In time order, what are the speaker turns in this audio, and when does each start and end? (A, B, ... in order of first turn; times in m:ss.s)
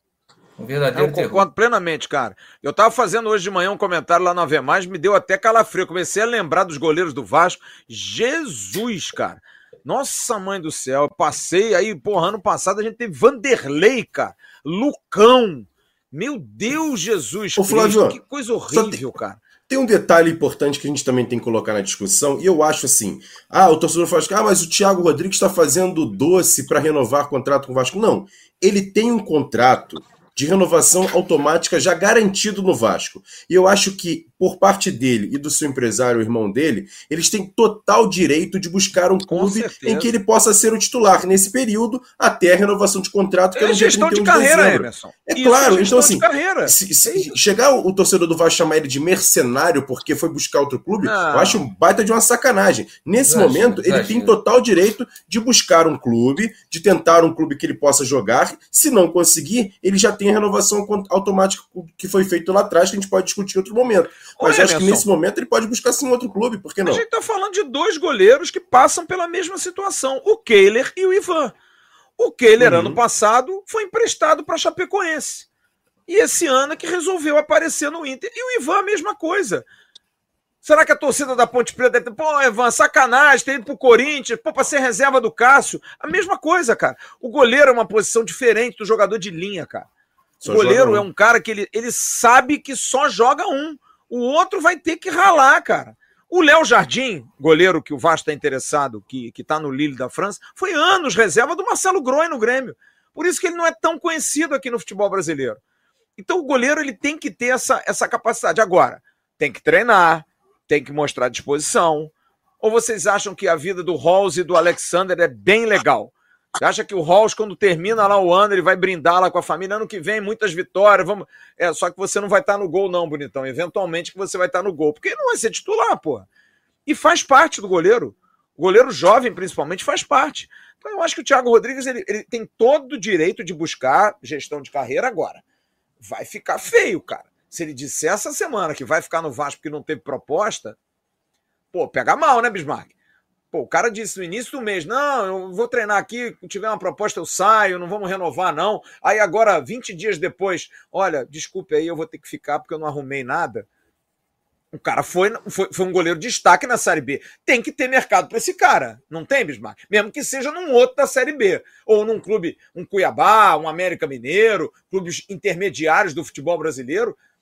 0:00.6-0:01.4 A
0:00.9-0:19.4 B
0:17.6-0:18.2 C
0:18.7-0:19.0 C
0:19.7-1:07.0 C
0:39.3-0:40.1 B
0:43.6-0:47.4 B
0:51.0-0:51.6 B
0:53.2-0:54.4 A
1:04.4-1:05.1 B
1:06.8-1:11.5 B
1:12.2-1:15.5 B
1:12.6-1:13.0 C
1:16.1-1:19.7 B
1:20.6-1:29.9 B
1:30.4-1:31.1 C
1:30.4-1:45.6 B
1:46.2-2:06.3 B
2:06.9-2:15.4 B
2:16.0-2:20.8 B
2:21.7-2:22.9 B
2:23.5-2:33.7 B
2:34.7-2:47.2 B